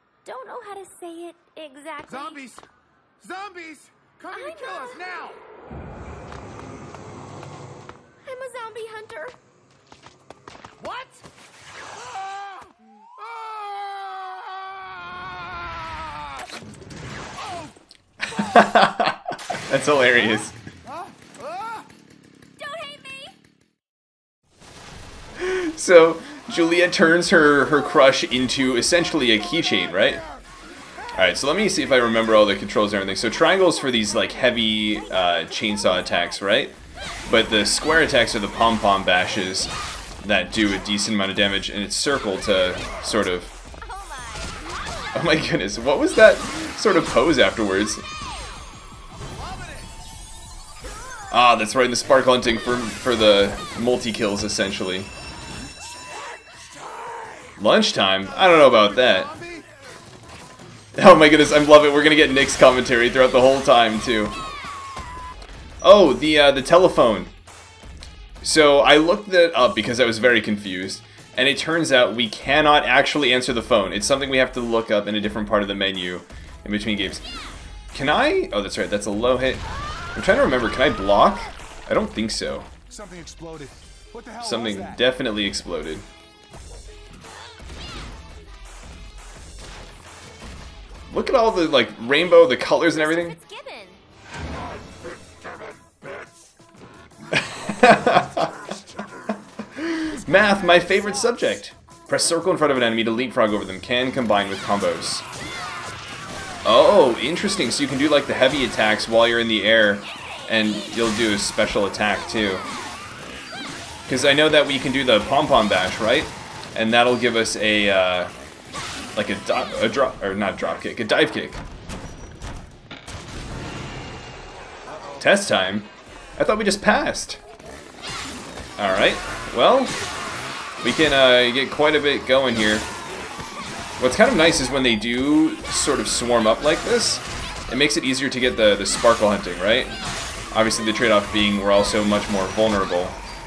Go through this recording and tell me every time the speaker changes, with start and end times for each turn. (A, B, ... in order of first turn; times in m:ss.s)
0:00.2-0:02.5 A
0:02.1-0:02.6 B
0:03.2-0:05.4 B
0:04.3-0:05.0 A
0:08.2-0:09.4 A
0:10.8-0:11.2 B
0:11.9-0:16.4 B
0:17.4-0:17.7 B
0:18.2-0:20.5 C
0:20.8-0:21.9 B
0:22.6-0:23.3 A
0:25.4-0:30.2 C
0:31.1-0:39.7 C
0:40.2-0:43.5 C
0:43.8-0:44.8 A
0:45.1-0:48.0 C
0:49.1-0:49.9 B
0:51.3-0:55.1 C
0:55.7-0:56.6 B
0:57.1-0:57.4 B
0:57.6-0:59.3 C
0:58.3-0:59.7 B
1:00.9-1:04.4 C
1:05.8-1:07.3 C
1:08.4-1:17.2 C
1:17.9-1:19.6 C
1:20.1-1:22.7 C
1:22.9-1:25.0 B
1:24.4-1:26.0 C
1:31.1-1:33.4 C
1:32.9-1:34.0 A
1:37.3-1:38.5 C
1:39.6-1:45.2 C
1:46.6-1:52.6 C
1:54.1-1:58.3 C
1:59.2-2:01.6 C
2:05.2-2:07.4 C
2:08.8-2:10.0 C
2:10.8-2:12.9 C
2:14.0-2:20.0 C
2:20.5-2:23.2 C